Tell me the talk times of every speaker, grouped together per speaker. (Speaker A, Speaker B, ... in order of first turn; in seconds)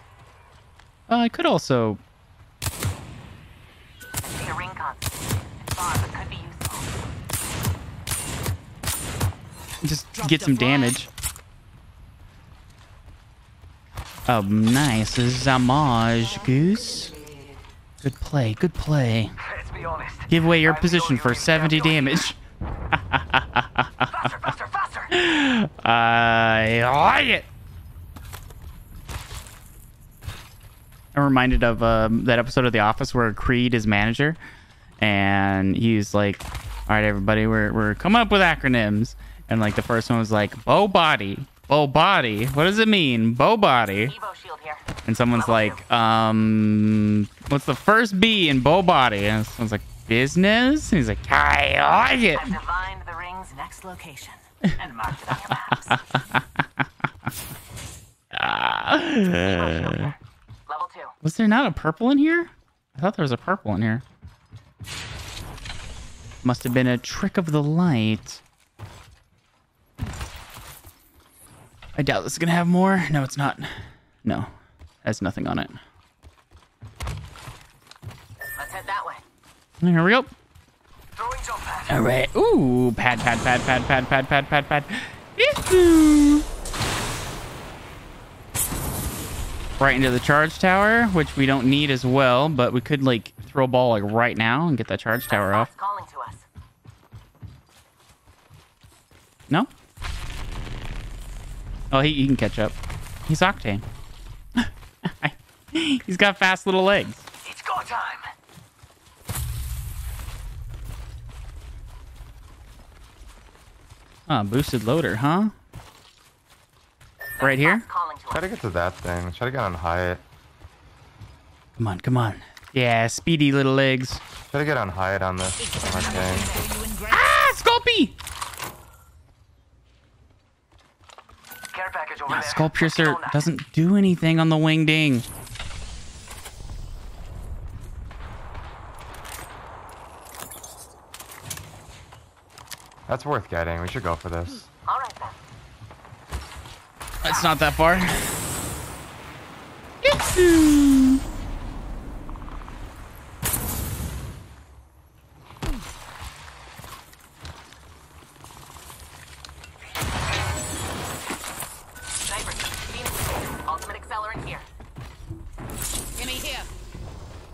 Speaker A: 1.1-2.0, 9.8-11.1, 14.3-17.1, 18.0-19.3, 20.3-22.4, 22.9-24.3, 25.1-27.5, 31.1-34.4, 35.0-44.1, 45.0-52.5, 56.1-56.5, 58.3-60.1, 61.2-64.0, 66.4-68.4, 72.0-73.7, 74.2-74.5, 75.0-75.8, 79.8-80.3, 81.9-86.4, 89.8-95.7, 101.9-102.7, 103.3-103.8, 104.6-107.2, 114.3-115.5, 117.4-117.8, 121.8-124.2, 127.1-128.1, 132.3-135.2, 147.2-148.2, 150.0-151.2
Speaker B: 4.2-6.9, 43.9-45.8, 52.3-56.0, 59.2-60.2, 60.7-61.1, 78.6-79.2, 95.3-96.4, 117.4-118.5, 126.1-126.7, 144.8-145.3, 162.3-164.7
Speaker C: 10.1-11.0, 125.6-127.5, 166.2-166.7
Speaker D: 17.1-17.5, 19.4-22.3, 24.1-25.1, 81.1-82.0, 107.4-108.3, 131.7-133.5
Speaker E: 118.3-120.2, 124.5-126.5, 143.1-144.7